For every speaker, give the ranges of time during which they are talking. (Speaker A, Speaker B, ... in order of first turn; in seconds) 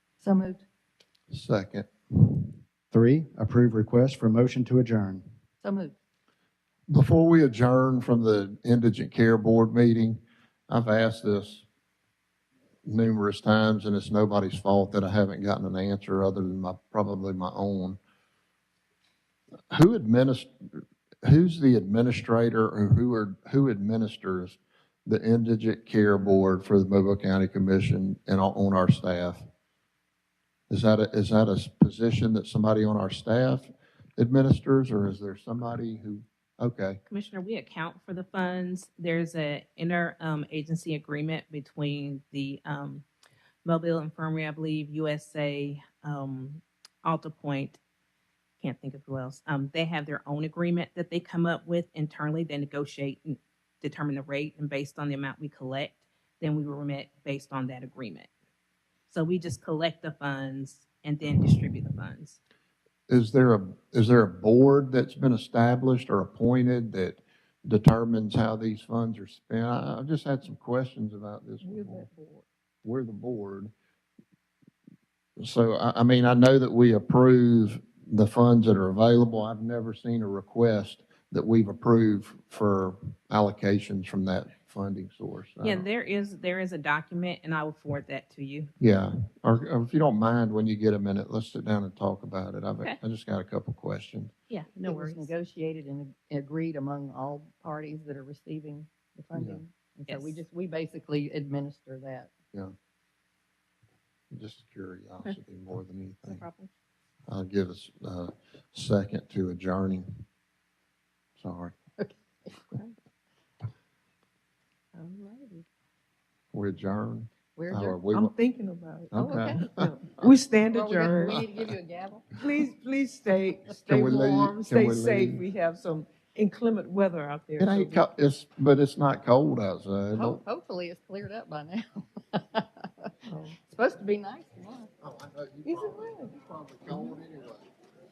Speaker A: 0.2-0.6, 5.6-5.9, 94.8-102.3, 112.0-112.9, 115.0-115.6, 117.6-118.0, 119.1-119.6, 120.6-122.3, 130.1-134.9
Speaker B: 1.3-1.9, 6.9-11.7, 12.8-18.0, 19.7-20.5, 21.2-29.4, 30.7-37.0, 63.1-72.1, 72.8-73.7, 75.4-85.9, 88.8-94.3, 99.3-99.6, 104.3-106.5, 107.3-110.1, 111.4-111.8, 116.5-118.3, 119.1-119.9, 123.9-125.4, 127.6-130.4, 135.0-137.7
Speaker C: 2.9-5.2
Speaker D: 37.1-43.0, 43.6-47.8, 48.6-58.3, 59.1-62.4, 85.6-88.7, 94.5-95.3, 100.1-100.4, 106.2-106.7
Speaker E: 71.6-72.4, 118.1-121.4, 122.4-128.0, 133.3-133.6, 135.7-136.3